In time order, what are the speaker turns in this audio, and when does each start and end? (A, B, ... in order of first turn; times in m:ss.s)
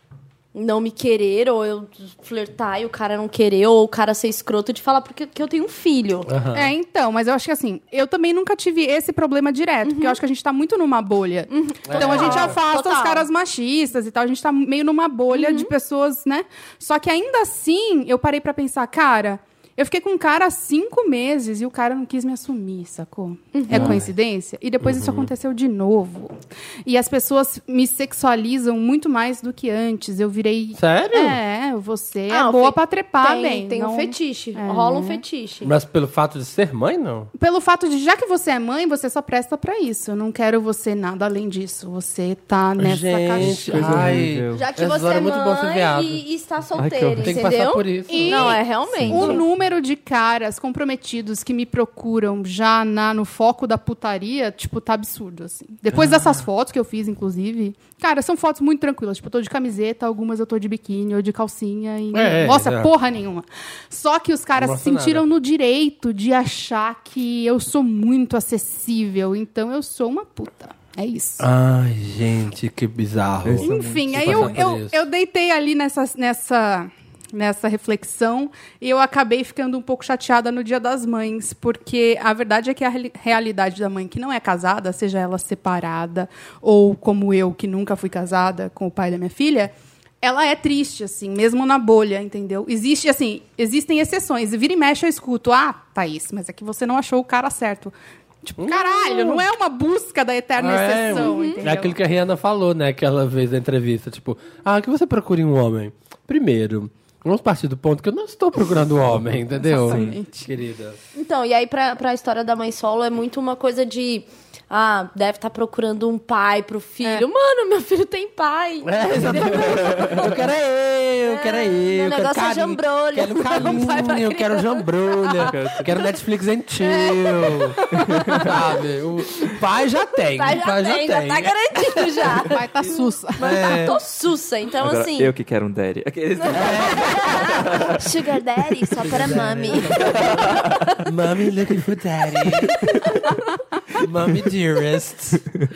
0:00.5-0:06.3 A
0:06.3-0:06.7 B
0:06.5-0:35.2 C
0:09.8-0:10.2 A
0:11.5-0:13.3 A
0:11.9-0:12.6 B
0:15.3-0:15.7 A
0:23.5-0:24.0 A
0:23.7-0:24.0 B
0:24.8-0:25.3 B
0:30.8-0:31.4 B
0:32.3-0:35.7 A
0:35.6-0:37.3 B
0:37.4-0:44.2 C
0:42.8-0:46.2 B
0:43.4-0:44.6 D
0:44.5-0:49.4 A
0:46.8-0:47.4 D
0:47.2-0:49.4 B
0:48.1-1:11.4 C
0:56.0-0:56.2 B
1:02.1-1:02.9 B
1:04.6-1:05.3 B
1:11.4-1:15.0 B
1:13.4-1:14.6 D
1:13.6-1:41.9 C
1:38.6-1:39.4 B
1:40.6-1:51.0 B
1:41.2-1:41.6 A
1:49.6-1:50.5 C
1:49.8-1:50.2 D
1:51.2-2:00.3 A
1:58.8-2:07.8 B
1:59.7-2:00.2 D
2:01.2-2:05.5 A
2:05.5-2:05.9 D
2:06.8-2:08.0 A
2:08.4-2:12.1 B
2:10.4-2:15.3 A
2:12.5-2:13.4 C
2:13.4-2:14.0 B
2:14.8-2:18.0 D
2:16.4-2:21.0 A
2:16.5-2:17.4 B
2:19.0-2:22.9 B
2:20.2-2:20.8 D
2:24.0-2:25.5 B